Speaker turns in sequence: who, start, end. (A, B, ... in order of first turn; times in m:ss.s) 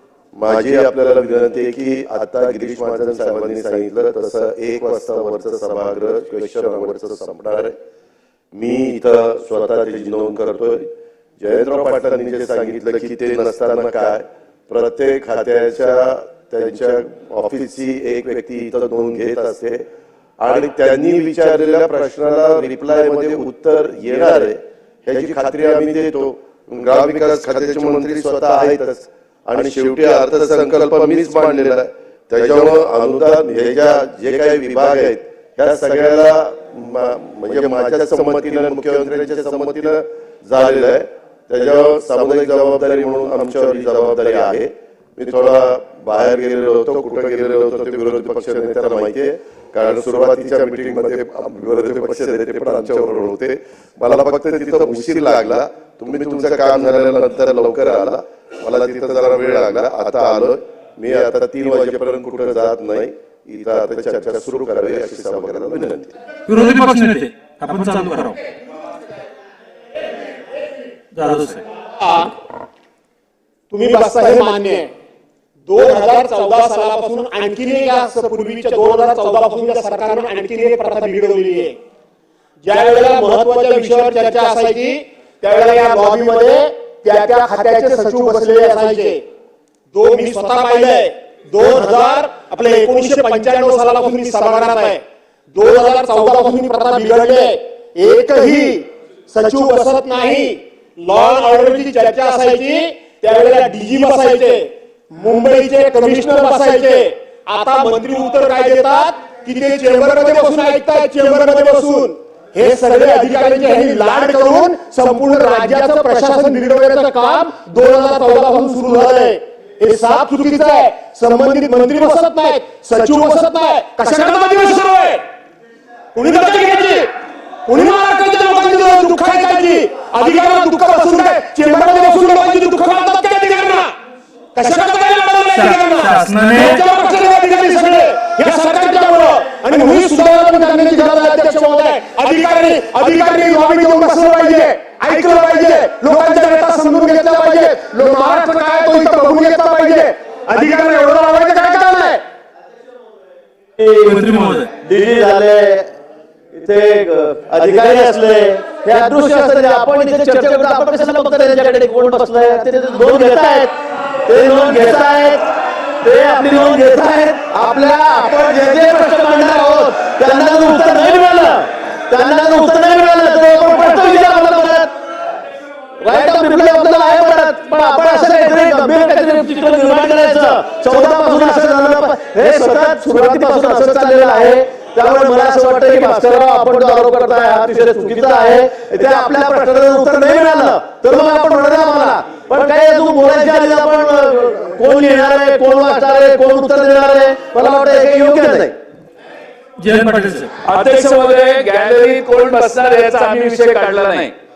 0:00.4-0:07.8 A
0:08.6-0:10.9 A
0:11.4-0:19.8 A
0:20.4-1:06.1 A
1:06.5-1:08.4 B
1:11.1-1:11.6 B
1:13.7-1:14.9 C
1:15.7-1:21.8 C
1:22.7-1:29.2 C
1:29.9-1:35.0 C
1:35.6-2:05.2 C
2:06.2-2:07.1 C
2:07.7-2:13.9 C
2:14.6-2:32.2 C
2:15.5-2:16.9 B
2:33.8-2:34.1 D
2:34.0-2:34.7 B
2:34.8-2:35.9 D
2:36.5-2:43.7 D
2:44.2-2:45.4 D
2:46.0-2:54.9 D
2:56.0-3:18.7 D
3:19.8-3:20.5 B
3:20.7-3:24.3 E